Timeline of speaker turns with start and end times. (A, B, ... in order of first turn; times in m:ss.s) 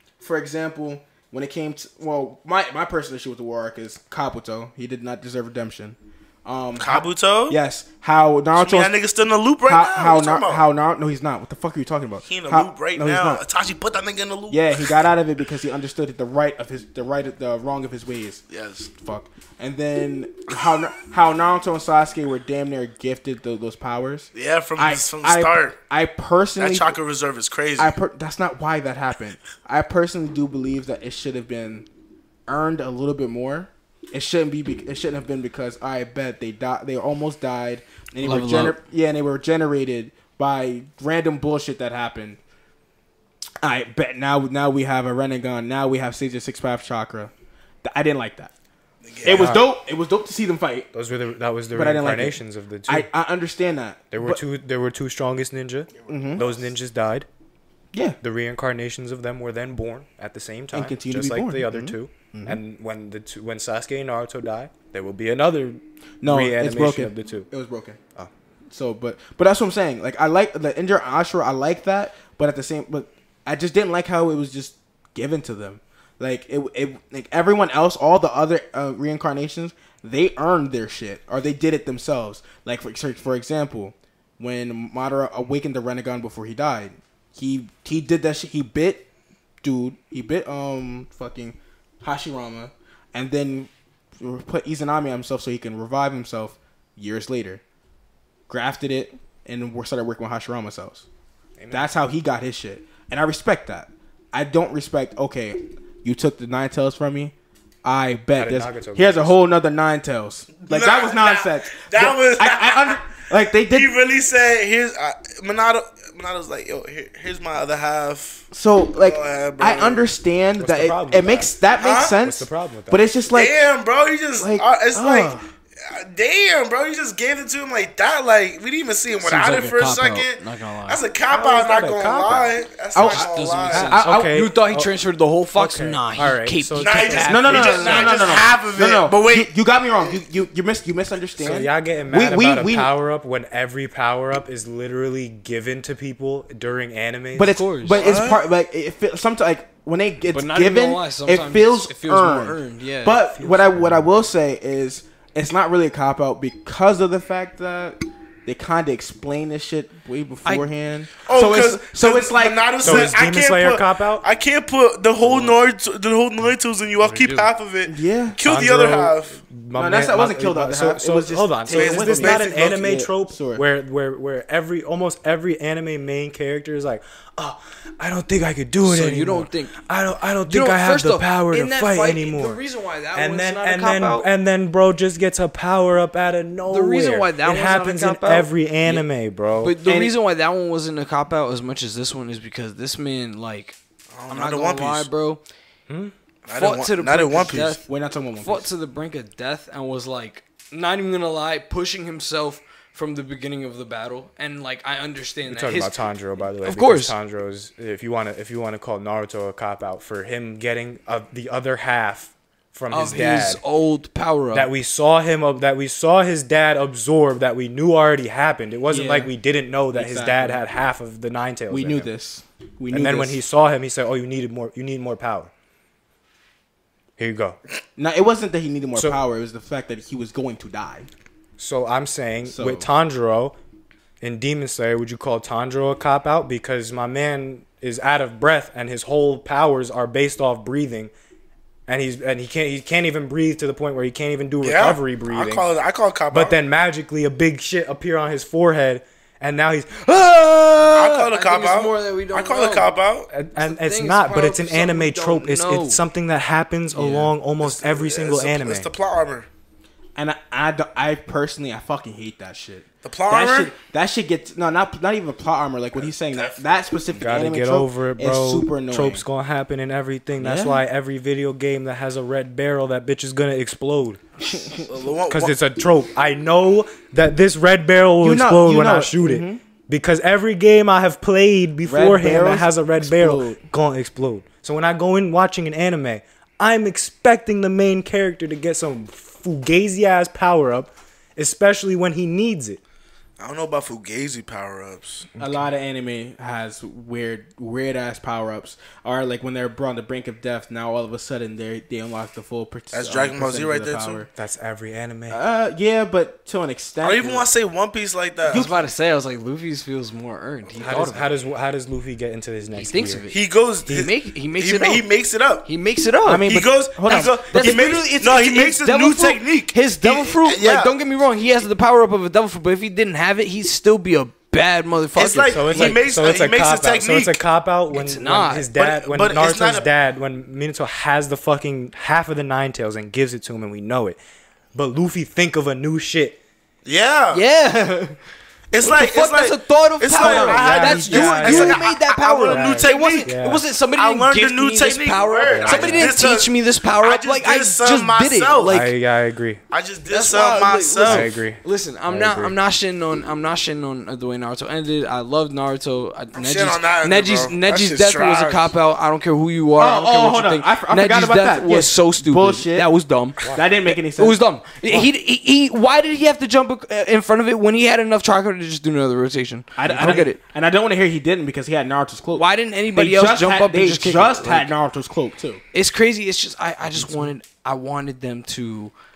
0:00.2-0:09.0 A
0:06.8-0:07.6 B
0:08.5-0:10.6 B
0:09.6-0:13.4 A
0:12.2-0:14.9 B
0:14.5-0:18.4 A
0:18.5-0:18.9 B
0:19.0-0:27.0 A
0:24.3-0:25.8 B
0:26.6-0:28.0 B
0:27.8-0:31.9 A
0:32.5-0:42.4 A
0:38.2-0:38.8 C
0:43.6-0:47.3 A
0:47.8-0:48.5 A
0:49.0-0:49.6 B
0:49.2-0:50.9 A
0:49.2-0:49.6 D
0:50.9-0:53.1 D
0:51.7-0:54.4 A
0:54.1-0:57.3 D
0:56.1-0:56.5 A
0:57.9-0:58.2 A
0:58.2-1:07.5 D
1:00.7-1:02.6 A
1:06.2-1:08.0 A
1:08.7-1:29.1 A
1:29.6-1:37.6 A
1:38.5-1:41.0 A
1:41.6-1:41.9 D
1:41.7-1:53.9 A
1:48.4-1:49.4 D
1:50.6-2:00.0 B
1:58.5-2:03.6 A
2:00.6-2:01.6 D
2:01.7-2:02.2 B
2:02.1-2:03.0 D
2:03.3-2:14.0 B
2:04.4-2:05.4 A
2:09.2-2:11.0 C
2:11.3-2:12.5 D
2:12.9-2:14.5 A
2:13.0-2:18.1 C
2:14.0-2:14.9 D
2:15.5-2:17.5 D
2:16.8-2:19.5 B
2:17.3-2:22.9 A
2:21.4-2:27.6 D
2:27.4-2:43.1 A
2:27.4-2:28.1 C
2:27.9-2:28.4 B
2:30.3-2:33.2 C
2:33.3-2:34.0 D
2:41.2-2:49.4 B
2:42.8-2:44.2 D
2:45.2-2:45.5 D
2:47.0-2:47.5 D
2:47.8-2:48.4 A
2:48.4-3:02.6 D
2:49.7-2:53.6 A
2:51.7-2:52.8 B
2:58.8-2:59.8 C
3:00.5-3:04.3 C
3:03.1-3:09.8 D
3:06.7-3:09.0 C
3:09.6-3:13.8 C
3:09.8-3:10.1 A
3:14.1-3:15.1 B
3:14.3-3:15.4 C
3:16.4-3:17.8 B
3:16.5-3:17.8 C
3:17.8-3:18.7 A
3:18.4-3:26.0 C
3:25.5-3:33.6 D
3:26.6-3:27.1 C
3:32.9-3:34.7 C
3:34.5-3:42.1 D
3:38.9-3:39.3 A
3:39.9-3:40.6 A
3:41.7-3:43.4 A
3:42.9-3:45.5 D
3:47.2-3:47.6 D
3:48.0-3:51.1 A
3:51.6-3:53.6 D
3:52.4-3:52.9 A
3:54.2-4:01.1 D
4:01.9-4:05.6 D
4:04.6-4:06.6 B
4:06.3-4:11.2 D
4:10.9-4:13.3 B
4:11.2-4:12.9 C
4:13.3-4:18.9 D
4:13.6-4:16.0 C
4:16.9-4:17.3 C
4:17.6-4:19.5 B
4:20.2-4:29.2 A
4:23.0-4:23.7 B
4:27.1-4:34.2 D
4:30.4-4:30.8 A
4:34.8-4:35.5 B
4:35.3-4:52.8 D
4:38.2-4:39.6 A
4:41.8-4:43.6 A
4:53.4-4:55.3 B
4:55.3-4:55.6 D
4:55.4-5:04.3 A
5:02.9-5:04.2 B
5:04.3-5:05.4 D
5:05.3-5:07.4 A
5:07.0-5:08.7 B
5:08.5-5:08.7 A
5:08.5-5:11.3 C
5:10.8-5:13.2 D
5:12.7-5:13.4 C
5:13.3-5:15.7 B
5:13.9-5:15.1 C
5:15.6-5:16.5 C
5:16.2-5:17.9 A
5:16.4-5:20.9 B
5:17.0-5:26.0 C
5:25.2-5:27.4 B
5:25.5-5:34.2 D
5:27.9-5:28.7 C
5:28.7-5:29.9 B
5:34.7-5:36.4 D
5:36.8-5:37.4 B
5:37.3-5:38.2 C
5:38.7-5:43.3 B
5:38.8-5:48.9 C
5:40.2-5:41.6 A
5:40.2-5:41.9 D
5:42.5-5:43.6 D
5:43.9-5:48.8 B
5:45.5-5:46.1 D
5:48.6-5:49.6 D
5:49.7-5:51.3 B
5:50.1-6:10.4 C
5:51.0-5:52.6 D
5:56.3-5:58.7 B
5:59.8-6:02.9 A
6:03.5-6:04.4 A
6:09.8-6:15.6 A
6:09.9-6:10.2 D
6:12.3-6:14.7 C
6:15.7-6:18.9 C